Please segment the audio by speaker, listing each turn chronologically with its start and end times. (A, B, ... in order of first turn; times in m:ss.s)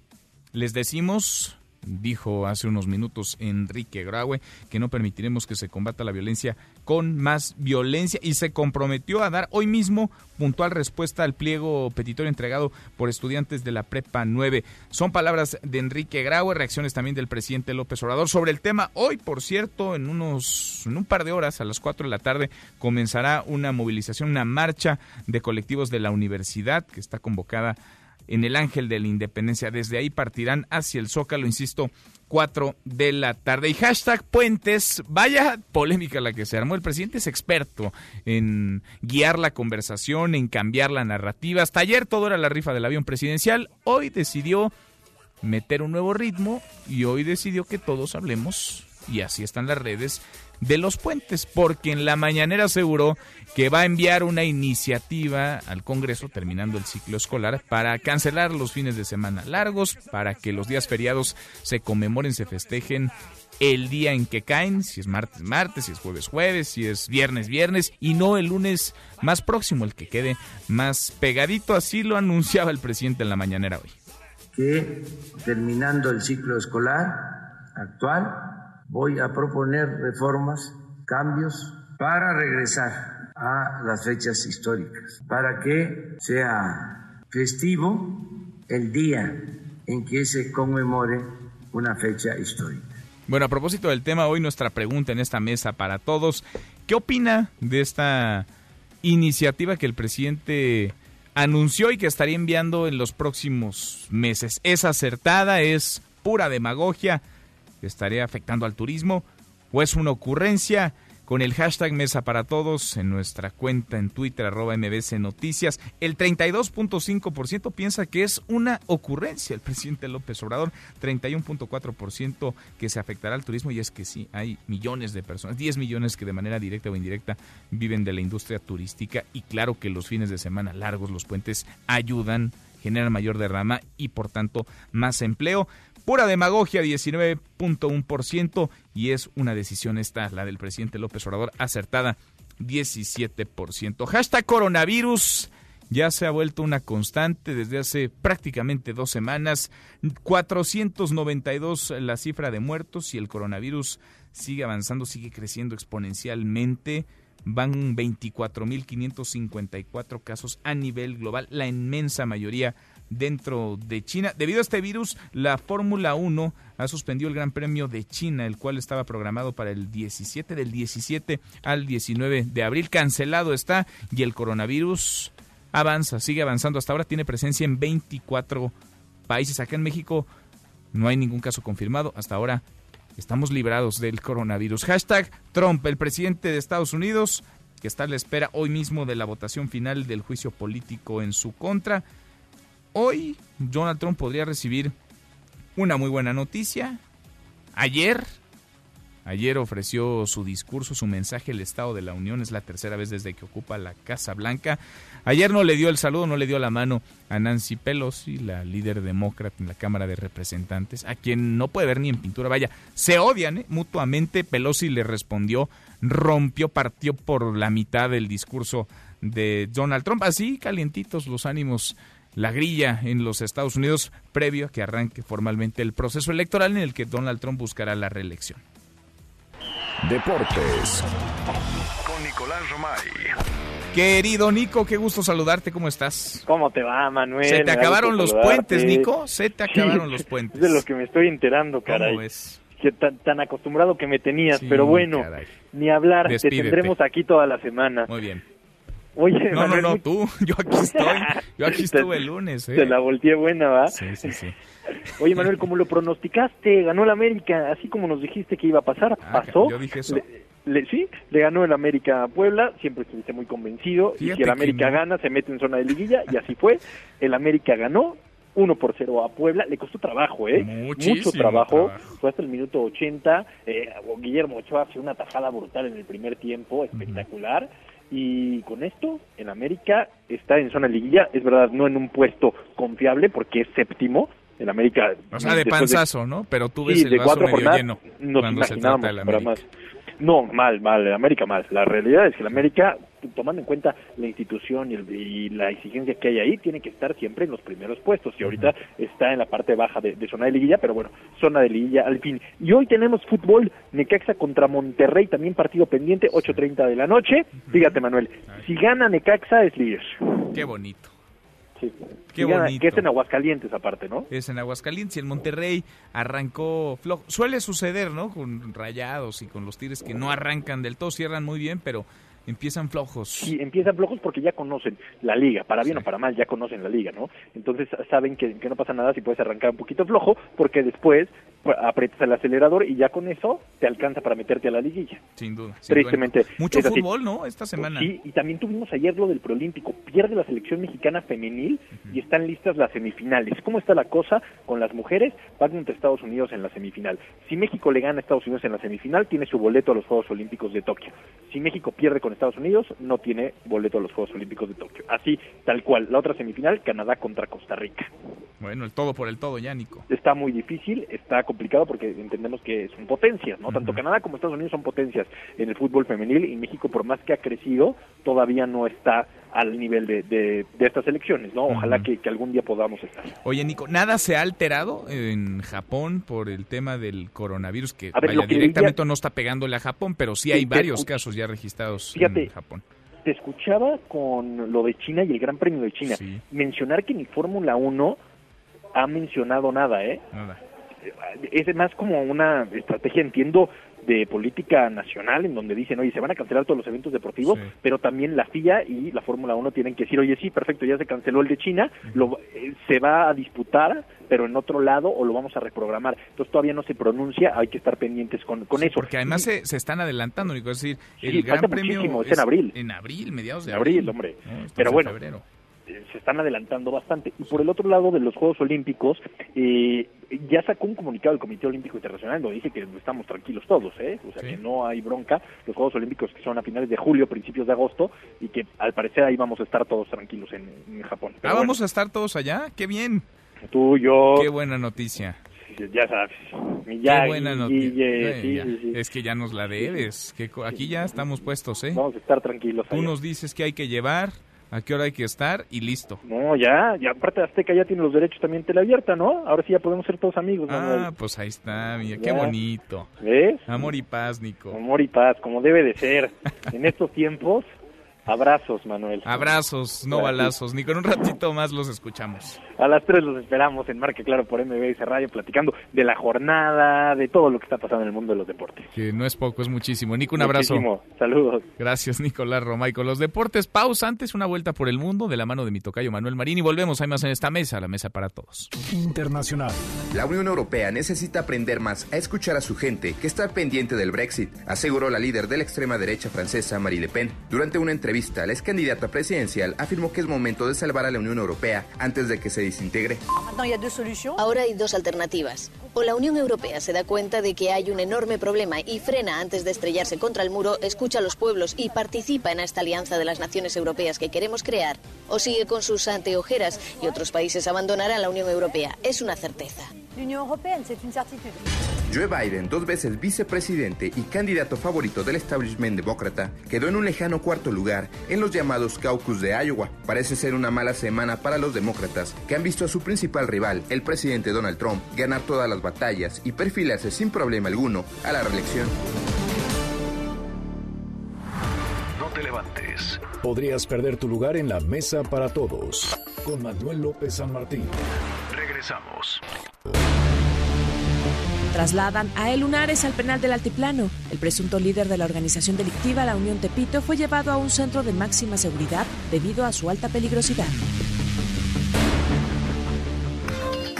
0:00.5-0:27.8 A
0:28.3-0:44.7 A
0:45.4-1:13.9 A
1:14.5-1:32.8 B
1:33.3-1:38.5 A
1:39.0-1:47.2 A
1:47.8-2:58.7 A
2:59.3-3:00.3 A
3:00.9-3:02.6 A
3:03.2-3:12.0 A
3:12.9-3:14.9 A
3:15.8-3:17.0 A
3:17.7-3:18.3 A
3:19.2-3:48.6 A
3:50.0-3:51.0 C
3:52.0-3:53.3 C
3:53.9-3:56.4 A
3:56.4-3:59.1 D
3:57.4-4:00.8 A
3:59.7-4:02.2 D
4:01.8-4:02.6 A
4:02.8-4:08.1 D
4:04.5-4:05.6 A
4:06.2-4:06.9 A
4:08.1-4:08.4 A
4:09.2-4:10.0 D
4:09.5-4:13.0 A
4:10.8-4:14.3 D
4:13.9-4:14.5 A
4:15.2-4:46.0 D
4:19.2-4:20.2 A
4:24.2-4:25.0 A
4:30.5-4:32.1 A
4:36.9-4:37.2 A
4:45.3-4:49.6 A
4:46.8-4:49.6 D
4:50.2-5:10.1 D
4:58.4-4:58.7 A
5:07.6-5:08.6 A
5:10.5-5:11.1 A
5:11.8-5:14.3 D
5:12.3-5:13.0 A
5:14.3-5:23.5 A
5:23.4-5:35.2 D
5:35.4-5:38.1 A
5:35.9-5:37.0 D
5:37.8-5:58.1 D
5:58.6-6:00.0 A
6:00.1-6:13.3 D
6:03.7-6:04.0 A
6:11.7-6:12.1 A
6:13.4-6:22.8 A
6:18.1-6:19.0 D
6:20.5-6:21.2 D
6:22.1-6:22.5 D
6:23.2-6:28.2 D
6:26.0-6:26.4 A
6:28.9-6:30.2 D
6:30.3-6:30.6 A
6:31.0-6:49.4 D
6:37.4-6:37.7 A
6:48.7-6:55.4 A
6:51.2-6:52.7 D
6:53.7-6:55.1 D
6:55.9-7:11.7 D
7:11.4-7:13.2 A
7:13.7-7:14.5 D
7:14.3-7:15.4 A
7:15.7-7:19.0 D
7:17.0-7:22.0 A
7:19.7-7:20.1 D
7:20.7-7:21.3 D
7:21.9-7:23.1 D
7:22.9-7:26.2 A
7:26.2-7:31.1 D
7:30.7-7:33.1 A
7:32.2-7:32.5 D
7:33.2-7:33.6 D
7:33.7-7:34.8 A
7:34.7-7:37.7 D
7:38.3-7:39.3 D
7:39.2-7:42.6 A
7:40.1-7:40.5 D
7:42.8-7:48.9 D
7:48.9-7:50.9 A
7:50.4-7:51.6 D
7:51.8-7:58.7 A
7:58.8-7:59.8 C
8:00.1-8:13.2 E
8:14.4-8:29.8 F
8:32.1-8:49.0 E
8:52.2-8:59.4 C
9:01.7-9:10.8 G